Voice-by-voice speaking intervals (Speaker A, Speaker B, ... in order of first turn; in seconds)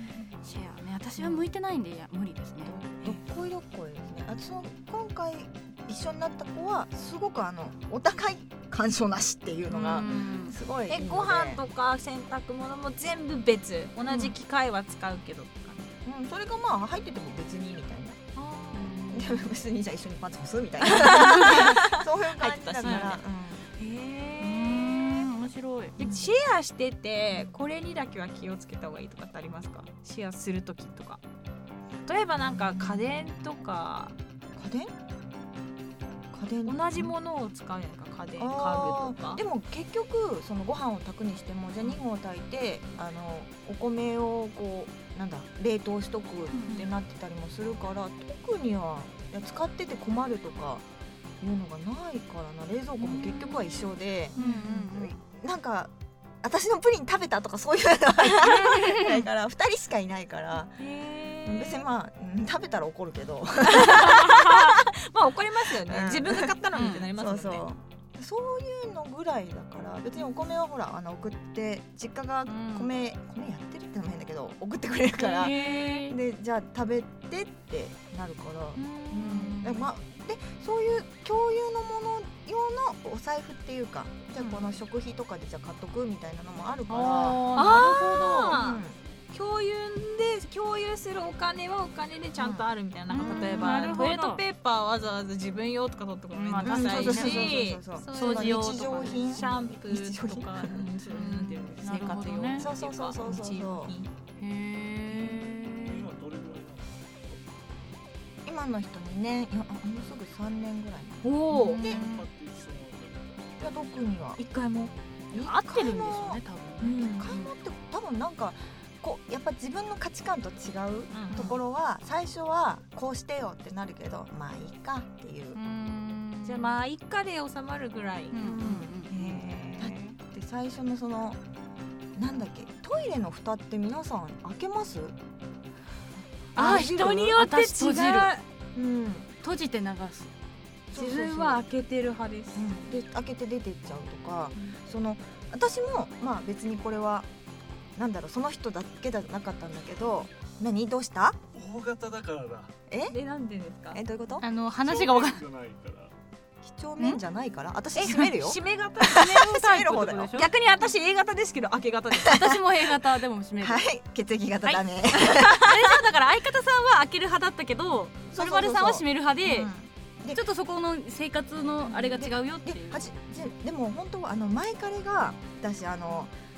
Speaker A: 0.4-2.8, 9.7-10.6, 18.7-19.4, 24.4-26.0, 53.0-53.6, 54.4-55.2, 58.4-59.2, 66.7-67.0, 72.5-72.9, 75.2-76.2, 79.2-79.8, 86.9-88.6, 93.1-94.4, 96.3-99.4, 101.1-102.7, 104.4-106.1, 111.6-112.3, 115.3-117.5, 121.3-121.6, 125.5-126.7, 128.3-129.1, 136.6-138.3, 139.4-140.3, 154.4-155.4, 158.0-158.3, 159.2-160.5, 162.2-163.9, 165.6-169.7, 170.3-173.1
Speaker B: 1.2-1.4, 2.6-11.6, 16.0-18.2, 19.1-23.7, 26.0-26.3, 34.6-34.9, 36.3-37.1, 38.4-50.9, 51.4-60.8, 61.4-64.9, 65.8-89.0, 92.4-94.0, 96.6-100.9, 102.6-103.9, 108.5-112.0, 113.6-114.4, 115.3-116.4, 117.0-125.6, 128.4-131.4, 132.2-135.2, 136.6-137.4, 138.8-139.3, 140.9-141.6, 142.6-147.3, 148.0-151.4, 152.9-153.2, 153.9-154.5, 156.6-160.3, 162.2-162.6, 163.6-165.9, 168.3-170.4, 171.9-176.3
Speaker C: 10.9-16.0, 18.4-18.9, 20.8-23.2, 23.8-25.3, 26.0-31.2, 32.1-34.1, 36.6-39.4, 54.4-54.9, 60.8-61.9, 63.7-67.6, 75.4-75.7, 78.8-79.4, 87.5-104.1, 111.2-111.9, 114.4-114.9, 116.8-117.3, 121.1-121.6, 126.4-128.4, 129.1-130.2, 136.6-138.4, 140.9-142.7, 153.1-154.0, 158.0-159.5, 160.3-162.4, 164.7-165.7
Speaker D: 105.7-108.0, 111.8-113.5, 151.5-152.7, 154.8-156.1